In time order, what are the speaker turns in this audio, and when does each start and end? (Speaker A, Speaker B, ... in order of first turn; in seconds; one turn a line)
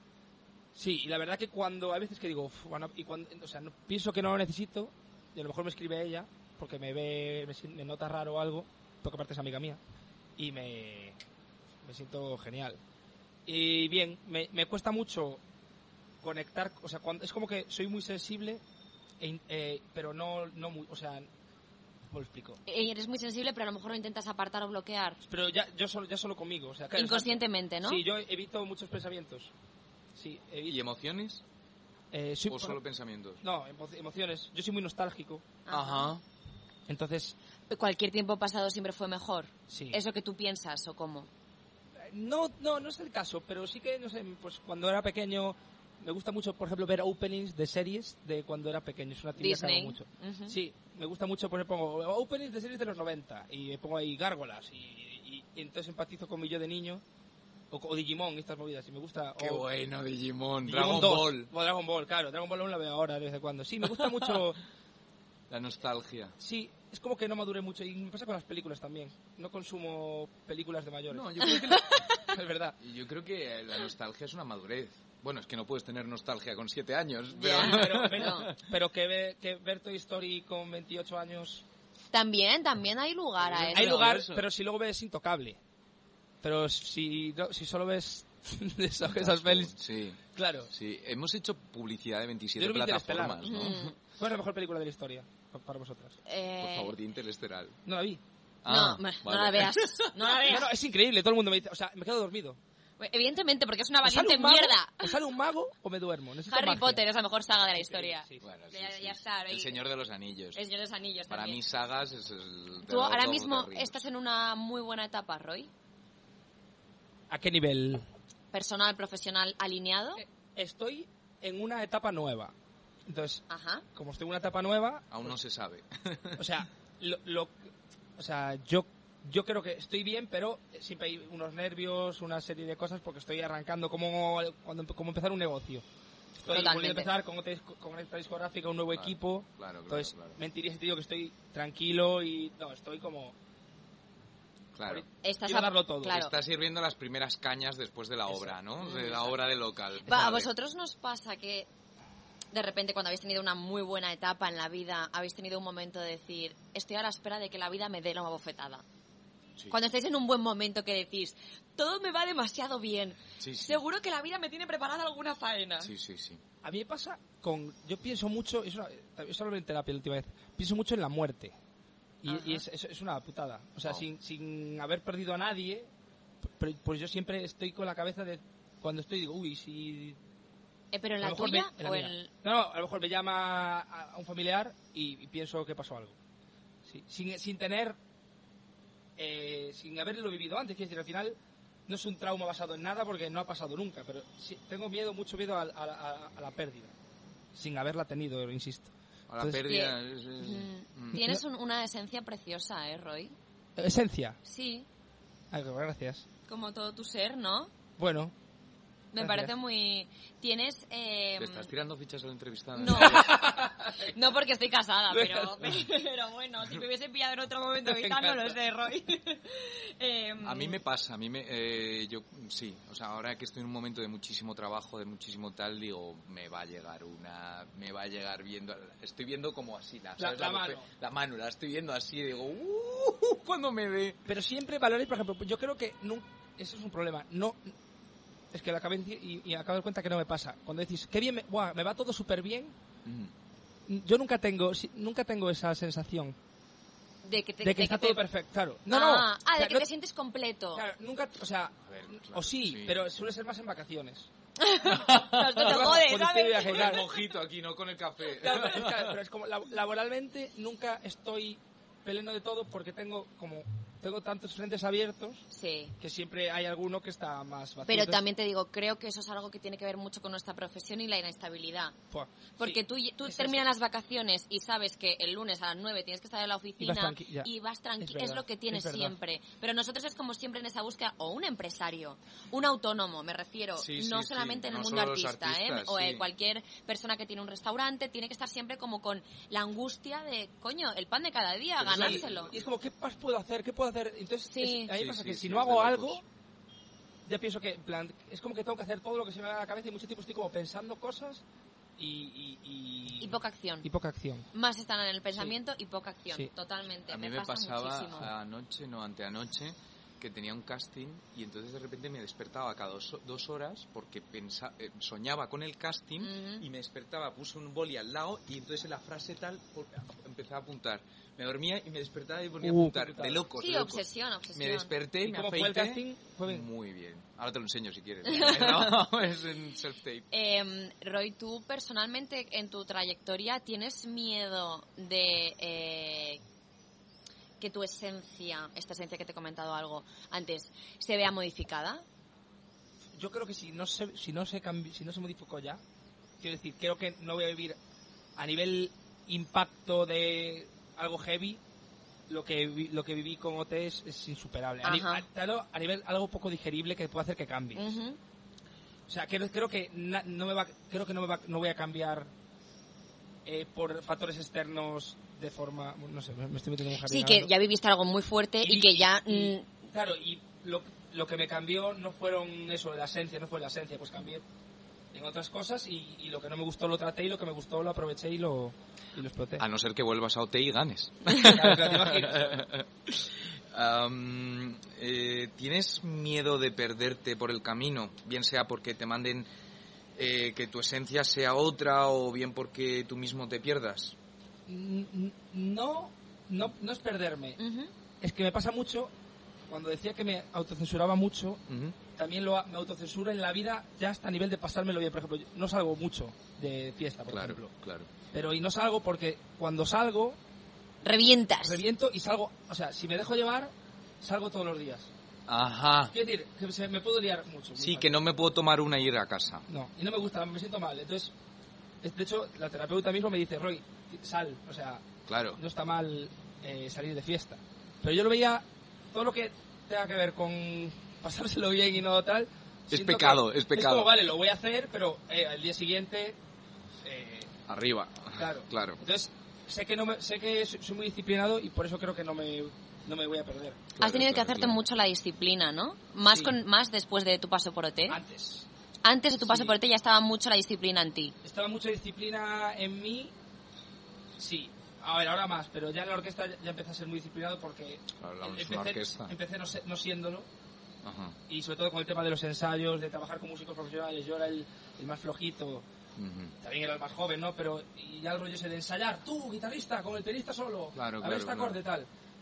Speaker A: 0.8-9.8
Speaker A: 10.4-11.2
Speaker A: 11.8-12.8
Speaker A: 13.5-15.4
Speaker A: 16.2-18.6
Speaker A: 19.2-21.3
Speaker A: 22.1-22.6
Speaker B: 22.7-25.2
Speaker A: 25.2-29.5
Speaker B: 26.9-28.0
Speaker A: 30.2-30.8
Speaker C: 30.7-31.4
Speaker A: 32.1-32.8
Speaker C: 32.5-33.4
Speaker A: 33.4-35.5
Speaker B: 35.7-36.1
Speaker C: 35.7-36.2
Speaker A: 36.9-37.4
Speaker B: 37.7-41.3
Speaker A: 39.7-40.0
Speaker A: 42.1-57.0
Speaker B: 49.4-50.6
Speaker A: 57.7-59.6
Speaker C: 59.4-61.5
Speaker A: 60.7-64.6
Speaker C: 65.5-66.4
Speaker A: 66.4-71.6
Speaker C: 71.1-72.1
Speaker B: 71.5-72.3
Speaker A: 72.3-72.8
Speaker C: 72.8-78.6
Speaker B: 77.3-78.5
Speaker A: 77.5-81.6
Speaker B: 82.1-84.0
Speaker C: 83.4-84.5
Speaker A: 83.7-85.6
Speaker A: 86.4-89.7
Speaker C: 89.0-93.9
Speaker A: 90.3-90.7
Speaker A: 92.6-96.2
Speaker B: 93.4-94.0
Speaker B: 96.3-96.9
Speaker C: 96.6-97.8
Speaker A: 97.9-98.2
Speaker C: 98.6-100.2
Speaker B: 98.7-100.7
Speaker A: 100.5-102.6
Speaker B: 103.0-105.2
Speaker A: 104.0-108.5
Speaker B: 106.5-109.8
Speaker C: 108.4-110.6
Speaker B: 110.5-111.6
Speaker C: 111.3-114.0
Speaker B: 112.9-115.7
Speaker A: 117.3-118.1
Speaker B: 118.5-120.2
Speaker A: 120.6-122.5
Speaker A: 123.1-125.3
Speaker B: 123.5-123.8
Speaker C: 125.1-126.5
Speaker A: 126.4-127.5
Speaker A: 128.2-135.8
Speaker A: 136.4-143.3
Speaker B: 136.5-137.1
Speaker C: 138.9-140.4
Speaker C: 144.8-145.1
Speaker A: 144.9-146.2
Speaker B: 145.2-146.3
Speaker C: 146.1-150.5
Speaker A: 148.3-148.6
Speaker B: 148.8-149.3
Speaker B: 150.1-151.7
Speaker B: 152.5-158.8
Speaker B: 159.7-165.9
Speaker C: 163.4-163.8
Speaker C: 165.8-166.4
Speaker A: 166.6-171.6
Speaker A: 172.2-175.9
Speaker B: 172.3-172.7
Speaker A: 176.5-180.2
Speaker B: 180.9-182.3
Speaker A: 181.2-186.2
Speaker A: 186.8-188.0
Speaker A: 189.2-196.9
Speaker A: 197.6-199.7
Speaker C: 199.3-201.2
Speaker B: 199.6-203.3
Speaker A: 201.2-201.4
Speaker A: 203.8-204.4
Speaker B: 204.4-204.9
Speaker A: 205.5-206.2
Speaker B: 206.5-207.7
Speaker A: 208.0-208.3
Speaker B: 209.1-211.7
Speaker A: 209.2-209.5
Speaker C: 211.4-213.4
Speaker B: 212.7-213.4
Speaker A: 212.9-214.2
Speaker B: 214.0-220.8
Speaker A: 215.1-215.8
Speaker A: 217.8-218.6
Speaker C: 220.4-234.2
Speaker A: 230.2-230.9
Speaker A: 234.3-237.7
Speaker A: 238.5-242.8
Speaker C: 243.1-243.3
Speaker A: 243.9-246.4
Speaker B: 247.2-248.2
Speaker A: 247.6-249.9
Speaker B: 248.9-250.8
Speaker A: 250.7-254.3
Speaker C: 251.9-253.0
Speaker B: 254.6-257.0
Speaker C: 254.9-255.9
Speaker A: 255.6-257.1
Speaker C: 256.6-259.1
Speaker A: 258.4-265.4
Speaker B: 265.5-265.9
Speaker A: 266.0-268.2
Speaker B: 267.9-271.9
Speaker A: 272.1-273.6
Speaker B: 272.6-292.5
Speaker A: 276.8-277.5
Speaker A: 278.0-279.1
Speaker C: 283.8-286.3
Speaker C: 291.8-292.6
Speaker A: 291.9-296.2
Speaker B: 294.5-294.9
Speaker C: 294.9-296.2
Speaker A: 297.3-301.4
Speaker A: 302.0-304.5
Speaker B: 303.2-303.9
Speaker B: 304.5-308.3
Speaker A: 305.3-305.6
Speaker C: 307.1-330.3
Speaker B: 316.2-316.6
Speaker A: 322.6-323.4
Speaker B: 323.6-324.9
Speaker A: 325.2-326.7
Speaker B: 328.3-329.0
Speaker B: 330.3-336.4
Speaker B: 337.6-342.0
Speaker A: 343.2-345.8
Speaker A: 346.4-347.8
Speaker A: 348.4-351.6
Speaker A: 352.3-358.0
Speaker B: 354.8-355.2
Speaker B: 357.8-358.2
Speaker A: 359.1-362.3
Speaker A: 363.5-367.5
Speaker B: 367.1-369.6
Speaker A: 368.6-374.4
Speaker A: 375.1-379.6
Speaker C: 379.6-389.5
Speaker A: 381.3-382.6
Speaker C: 390.2-394.2
Speaker A: 394.7-397.6
Speaker B: 397.6-397.9
Speaker A: 398.2-399.1
Speaker A: 399.7-401.6
Speaker C: 401.7-402.0
Speaker A: 402.1-407.7
Speaker C: 407.3-408.1
Speaker A: 408.3-410.4
Speaker B: 411.0-411.8
Speaker A: 411.6-415.1
Speaker C: 415.5-416.1
Speaker A: 416.1-418.1
Speaker C: 417.8-419.6
Speaker A: 419.7-421.3
Speaker A: 422.0-425.0
Speaker C: 425.3-425.6
Speaker A: 425.6-436.4
Speaker C: 432.9-434.1
Speaker A: 437.0-437.5
Speaker C: 437.7-439.0
Speaker A: 438.4-443.9
Speaker C: 443.9-444.8
Speaker B: 444.0-448.2
Speaker A: 446.2-446.6
Speaker A: 448.1-448.7
Speaker B: 449.0-451.4
Speaker A: 449.4-449.8
Speaker A: 451.4-453.3
Speaker A: 454.4-460.5
Speaker C: 458.2-459.3
Speaker C: 461.0-461.4
Speaker A: 461.5-465.8
Speaker C: 466.2-466.5
Speaker A: 466.6-472.1
Speaker C: 470.9-471.8